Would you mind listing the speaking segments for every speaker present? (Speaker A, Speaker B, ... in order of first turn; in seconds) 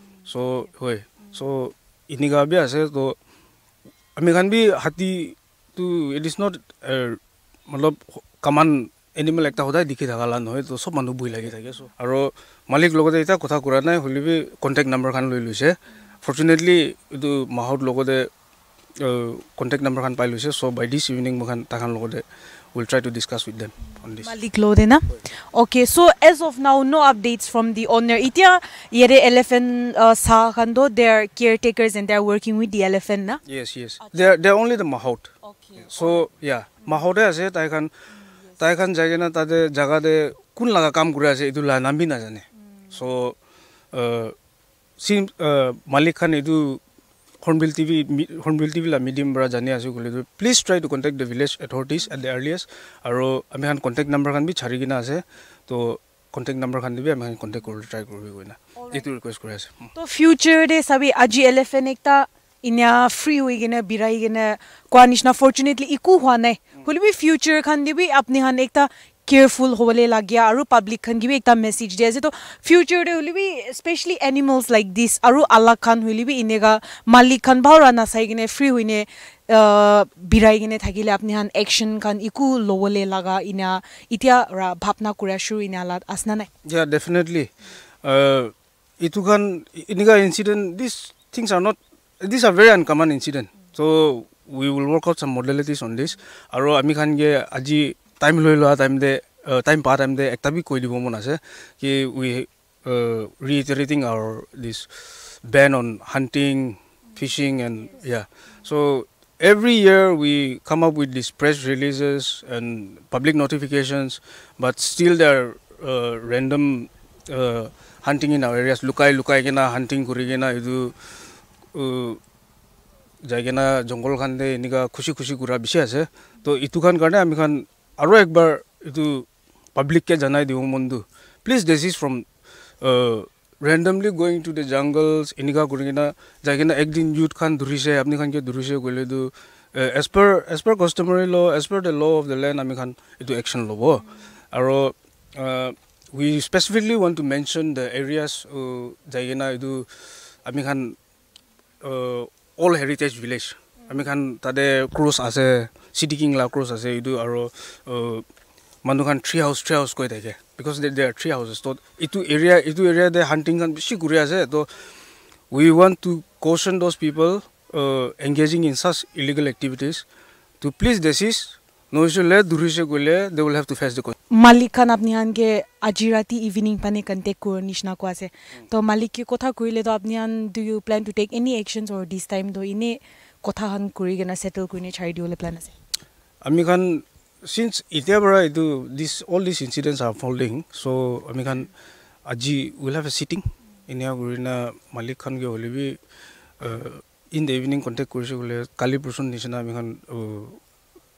Speaker A: 0.3-3.1, 4.2-18.3, 19.0-22.2, 22.7-24.4, 33.5-35.3, 35.8-37.9, 38.6-43.3, 43.9-44.3, 45.0-46.8, 47.4-59.9, 86.6-87.5, 88.0-120.9, 121.7-122.2, 123.2-132.2, 132.8-149.9, 150.4-151.0, 151.8-158.2, 158.8-164.7, 165.5-170.0, 170.6-174.1, 186.4-191.7, 192.3-196.0, 196.6-200.6
Speaker B: 24.2-33.4, 34.0-34.3, 35.4-36.1, 59.9-86.5, 174.3-185.7